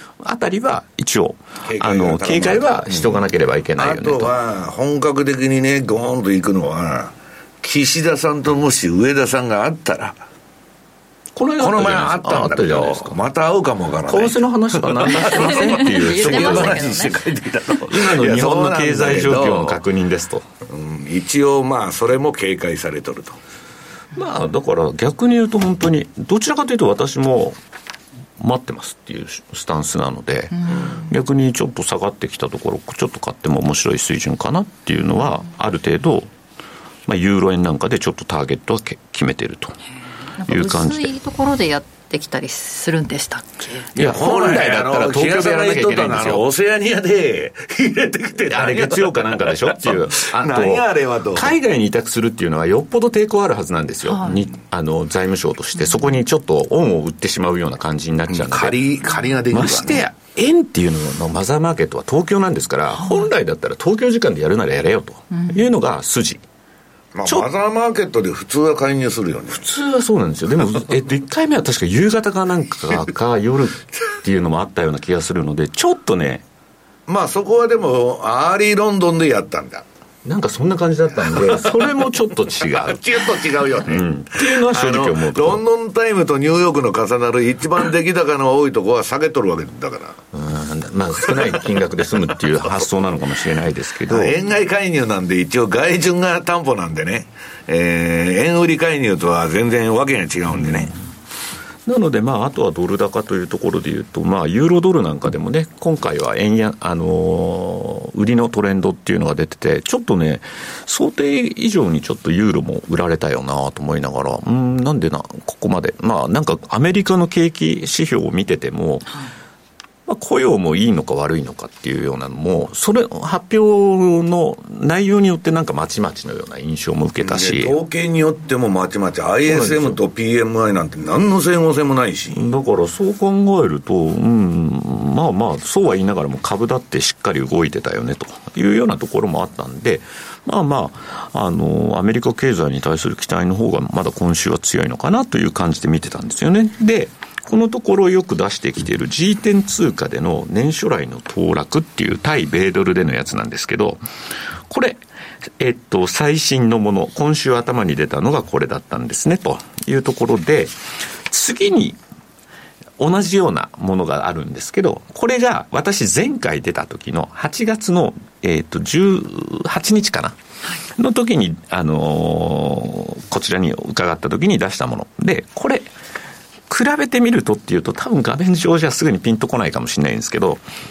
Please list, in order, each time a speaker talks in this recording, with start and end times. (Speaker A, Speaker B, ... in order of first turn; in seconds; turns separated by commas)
Speaker A: 0.2-4.3, Speaker B: 1.6-3.2, Speaker B: 3.8-10.2, Speaker A: 11.3-13.2, Speaker B: 11.6-19.8, Speaker A: 14.1-17.0, Speaker C: 15.4-17.2, Speaker A: 17.9-20.5, Speaker B: 20.7-23.4, Speaker A: 24.1-27.6, Speaker A: 28.4-36.3, Speaker C: 30.6-31.0, Speaker A: 37.0-39.8, Speaker C: 40.4-43.9, Speaker A: 40.4-41.1, Speaker A: 43.9-46.4, Speaker B: 43.9-51.5, Speaker A: 48.5-58.8, Speaker C: 54.0-54.4, Speaker C: 55.8-56.1, Speaker B: 58.3-60.0, Speaker A: 59.5-66.4, Speaker C: 62.9-63.3, Speaker C: 65.3-65.6, Speaker B: 67.1-69.7, Speaker A: 69.5-76.4, Speaker B: 77.1-79.8, Speaker A: 80.2-83.2, Speaker B: 81.4-81.9, Speaker B: 82.7-90.2, Speaker A: 83.8-85.6, Speaker A: 90.3-94.4, Speaker B: 91.2-91.5, Speaker B: 94.1-100.9, Speaker A: 100.5-100.9, Speaker A: 101.8-119.1, Speaker A: 120.1-127.7, Speaker B: 127.2-132.4, Speaker A: 129.5-130.0, Speaker A: 132.3-154.0, Speaker A: 154.7-155.0, Speaker A: 155.6-162.0, Speaker A: 163.0-170.4, Speaker A: 170.9-175.9, Speaker A: 176.7-180.6